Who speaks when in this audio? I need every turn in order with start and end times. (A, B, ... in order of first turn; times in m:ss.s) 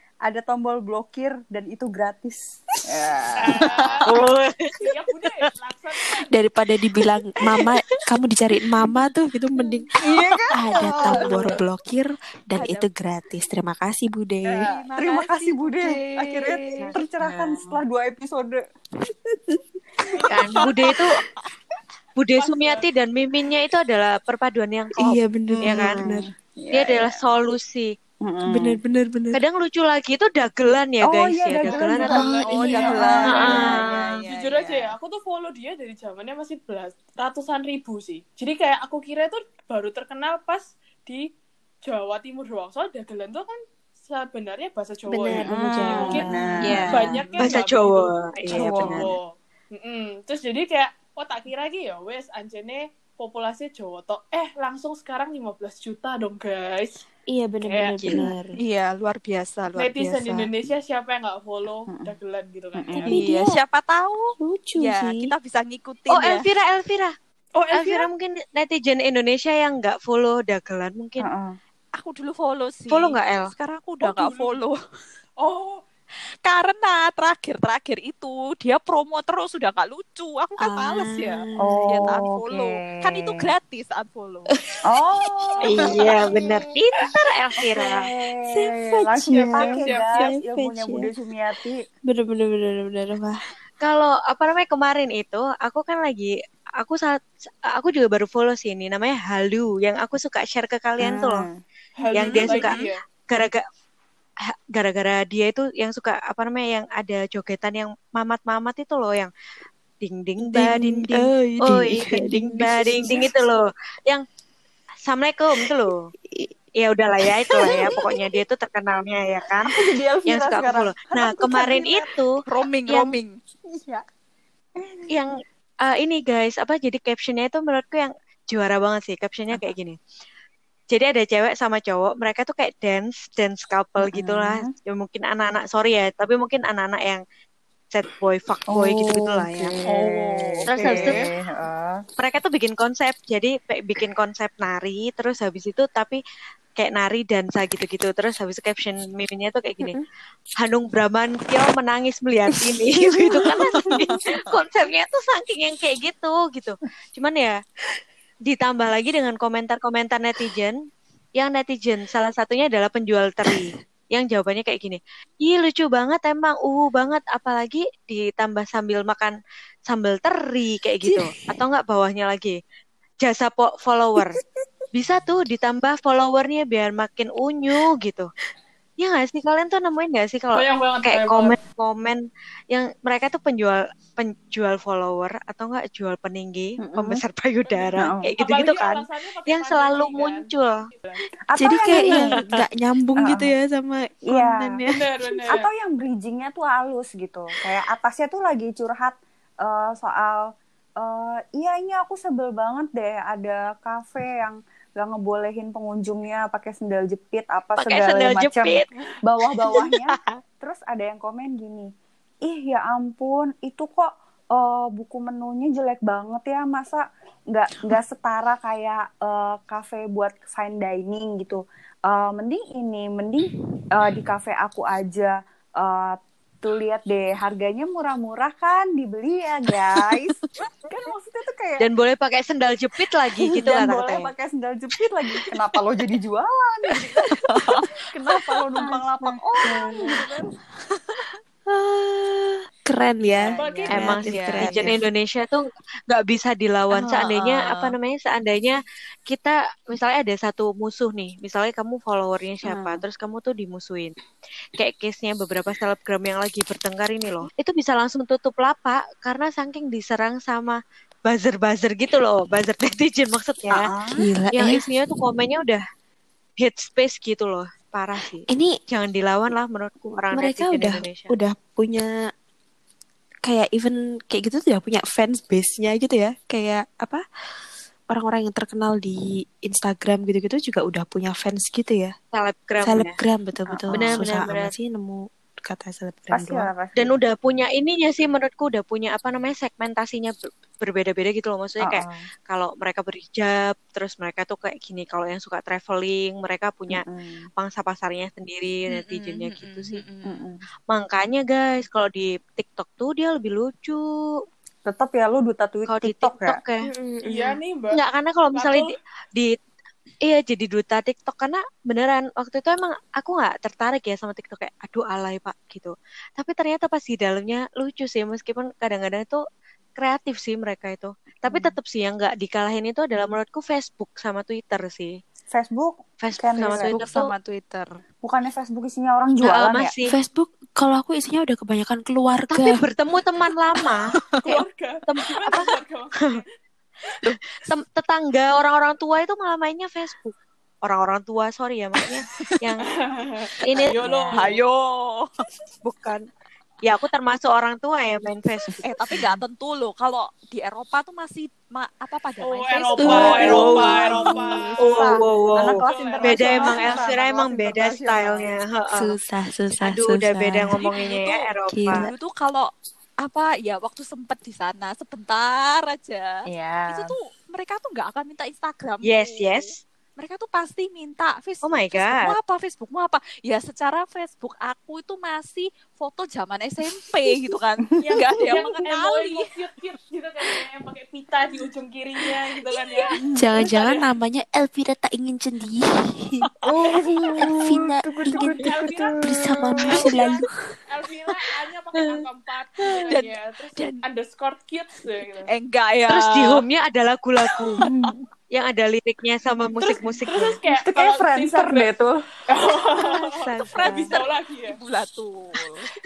0:00.2-0:04.0 A
0:03.4-0:04.1 B
0:04.0-0:04.8 C
0:04.8-0:06.3 B
0:06.3-0:09.9 D
0:10.0-0:11.6 A
0:10.5-0:14.7 D
0:12.5-0:12.9 E
0:14.4-0:18.6 A
0:14.6-0:16.5 E
0:16.8-0:17.6 C
0:20.3-0:21.2 C
0:22.2-0:26.0 C
0:22.4-0:22.9 B
0:25.0-0:26.3 D
0:25.5-0:27.2 A
0:26.7-0:27.9 C
0:28.2-0:28.8 A
0:28.4-0:29.4 D
0:29.3-0:32.3 C
0:31.0-0:34.1 A
0:31.7-0:41.3 B
0:32.4-0:34.9 E
0:33.2-0:33.9 C
0:41.8-0:57.0 B
0:45.1-0:46.4 D
0:45.4-0:47.3 A
0:46.6-0:49.1 C
0:48.5-0:49.1 A
0:57.3-0:58.6 D
0:57.6-0:58.1 B
0:58.6-1:00.4 E
0:59.7-1:03.2 B
1:01.9-1:02.1 A
1:02.7-1:03.2 A
1:03.0-1:03.6 D
1:03.0-1:06.4 E
1:04.4-1:05.3 D
1:06.1-1:07.1 C
1:07.5-1:08.1 B
1:07.7-1:11.3 C
1:11.2-1:11.6 A
1:12.0-1:14.8 E
1:12.9-1:13.5 C
1:14.0-1:14.6 B
1:15.4-1:15.8 B
1:16.4-1:24.5 E
1:20.6-1:22.2 D
1:21.6-1:23.5 A
1:24.8-1:26.1 A
1:25.7-1:28.0 C
1:25.7-1:26.4 D
1:27.6-1:31.8 A
1:28.4-1:31.1 D
1:29.4-1:30.2 B
1:32.0-1:33.4 D
1:33.8-1:41.5 C
1:41.0-1:41.6 A
1:42.0-1:43.0 B
1:42.1-1:43.6 C
1:42.2-1:42.7 E
1:44.5-1:49.3 C
1:50.0-1:54.2 C
1:50.4-1:53.3 D
1:55.0-1:56.1 C
1:56.8-2:03.1 C
1:57.5-1:58.0 D
1:59.7-2:02.1 A
2:02.5-2:03.4 E
2:03.7-2:04.0 A
2:04.8-2:05.1 A
2:05.1-2:10.0 C
2:10.9-2:17.2 C
2:14.0-2:14.7 A
2:17.9-2:19.7 C
2:18.7-2:22.0 A
2:19.9-2:21.1 E
2:20.7-2:21.2 C
2:22.2-2:26.2 C
2:26.8-2:29.9 C
2:30.6-2:37.6 C
2:33.8-2:34.1 A
2:38.4-2:40.8 C
2:41.4-2:49.3 C
2:49.9-2:52.6 C
2:53.2-2:54.4 C
2:54.9-2:58.3 C
2:59.0-3:10.9 C
3:00.5-3:01.6 B
3:06.8-3:07.2 A
3:07.7-3:11.2 B
3:08.0-3:08.3 A
3:11.5-3:12.5 A
3:11.6-3:15.5 D
3:13.2-3:13.5 A
3:14.3-3:14.8 A
3:14.8-3:15.7 B
3:15.5-3:20.4 A
3:21.0-3:31.9 A
3:27.8-3:28.9 C
3:32.4-3:51.8 A
3:51.8-3:54.3 C
3:53.5-4:00.3 A
3:57.5-3:57.8 E
4:00.0-4:00.4 B
4:01.7-4:05.0 D
4:03.4-4:04.2 A
4:03.5-4:04.2 B
4:03.9-4:14.1 C
4:04.2-4:04.9 E
4:14.8-4:23.9 C
4:23.7-4:24.2 A
4:24.1-4:24.9 D
4:24.5-4:25.8 C
4:26.6-4:31.3 C
4:28.5-4:28.8 D
4:30.3-4:32.3 D
4:33.4-4:37.2 D
4:38.1-4:42.1 D
4:42.3-4:43.2 C
4:42.8-4:46.7 D
4:43.7-4:44.5 A
4:43.9-4:44.7 C
4:46.3-4:47.1 A
4:47.0-4:57.0 C
4:51.8-4:52.3 A
4:56.9-4:57.5 A
4:57.6-5:00.0 C
4:58.9-5:00.4 E
5:00.2-5:00.6 A
5:00.9-5:04.1 C
5:04.8-5:06.6 A
5:05.9-5:06.8 C
5:06.9-5:07.5 D
5:07.2-5:08.0 B
5:07.9-5:09.5 C
5:08.5-5:08.9 B
5:10.2-5:19.4 C
5:20.0-5:25.2 C
5:21.4-5:21.8 A
5:25.5-5:27.0 A
5:26.2-5:27.3 C
5:26.6-5:28.0 E
5:28.2-5:29.9 A
5:29.4-5:30.1 C
5:30.0-5:32.8 D
5:32.5-5:35.7 C
5:34.4-5:36.5 B
5:37.5-5:42.8 C
5:42.8-5:44.6 B
5:43.6-5:44.0 C
5:44.0-5:44.4 A
5:44.3-5:45.3 E
5:45.8-5:46.2 C
5:46.8-5:48.9 C
5:48.8-5:55.1 E
5:49.1-5:49.4 A
5:52.4-5:57.0 B
5:53.0-5:53.8 D
5:53.0-5:54.1 C
5:53.1-5:54.0 A
5:54.8-5:59.2 C
5:54.8-5:58.5 A
5:58.9-6:00.9 D
5:59.8-6:02.1 C
6:00.7-6:19.5 E
6:01.7-6:02.1 D
6:06.5-6:07.1 A
6:09.0-6:09.8 C
6:11.6-6:12.4 C
6:18.0-6:24.0 B
6:23.2-6:23.5 A
6:23.3-6:26.5 D
6:26.6-6:30.0 A
6:27.4-6:28.7 D
6:28.3-6:35.5 B
6:29.2-6:30.5 D
6:33.1-6:34.0 E
6:35.5-6:36.6 E
6:36.1-6:37.8 C
6:37.8-6:38.2 A
6:38.5-6:40.6 C
6:40.2-6:41.9 B
6:40.7-6:42.2 A
6:42.5-6:44.8 B
6:43.6-6:44.1 E
6:43.8-6:44.1 C
6:44.7-6:45.9 E